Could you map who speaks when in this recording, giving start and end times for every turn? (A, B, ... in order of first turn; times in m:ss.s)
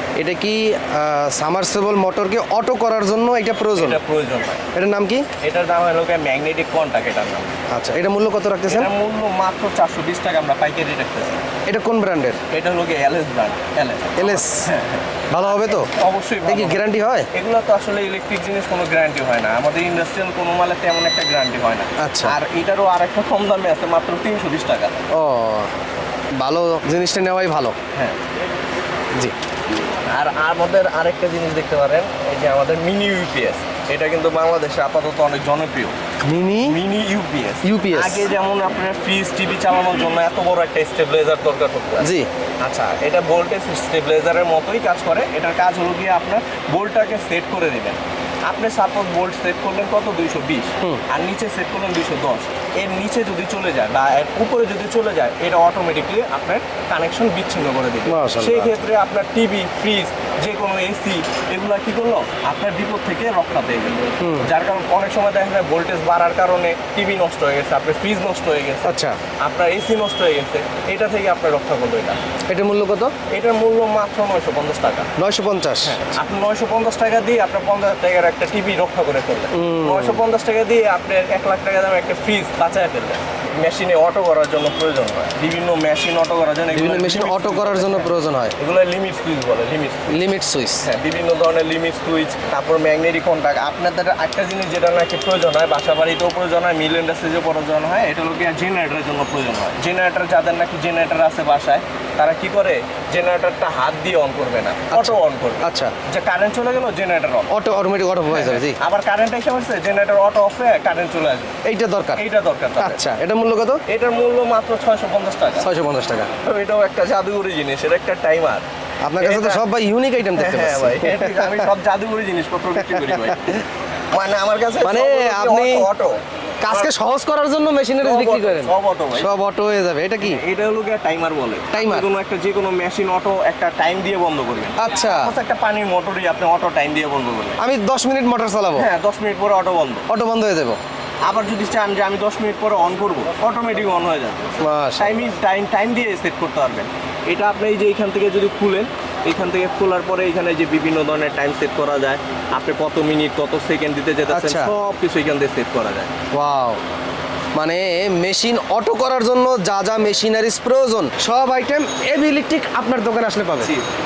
0:00.2-0:04.0 A
0:03.8-0:04.6 B
0:04.7-0:05.2 A
0:05.4-0:07.6 B
0:07.7-0:08.9 A
0:08.7-0:11.4 B
0:11.6-0:12.4 A
0:12.5-0:25.0 B
0:14.2-0:14.7 A
0:15.3-0:15.9 A
0:16.4-0:17.3 A
0:22.0-0:22.4 A
0:25.1-0:25.7 A
0:26.4-0:27.7 A
0:30.1-0:36.0 B
0:36.2-0:36.8 A
0:36.6-1:12.2 B
0:37.6-0:38.3 A
0:42.0-0:42.3 A
0:58.0-0:58.8 A
1:04.2-1:04.5 A
1:08.8-1:09.2 A
1:12.5-1:13.1 A
1:13.3-1:15.1 B
1:15.2-1:16.0 A
1:15.8-1:30.2 B
1:19.5-1:20.2 A
1:26.7-1:28.5 A
1:30.1-1:30.8 A
1:30.8-1:47.5 B
1:44.9-1:45.9 A
1:47.5-1:48.8 A
1:48.3-1:51.6 B
1:51.6-1:52.2 A
1:52.2-1:53.0 B
1:52.8-1:53.8 A
1:53.9-1:55.7 B
1:55.6-1:56.3 A
1:56.4-1:58.6 B
1:59.0-2:01.7 A
1:59.2-1:59.6 B
2:00.3-2:03.6 B
2:02.8-2:03.6 A
2:04.1-2:06.9 B
2:04.8-2:05.9 A
2:06.6-2:10.4 A
2:08.0-2:09.3 B
2:10.2-2:17.6 B
2:11.7-2:12.1 A
2:14.8-2:15.3 A
2:17.6-2:18.9 A
2:18.8-2:20.0 B
2:20.1-2:20.8 A
2:21.2-2:24.4 B
2:24.6-2:25.2 A
2:25.0-2:36.1 B
2:34.3-2:34.8 A
2:36.3-2:36.8 A
2:37.5-2:43.7 A
2:43.6-2:43.9 B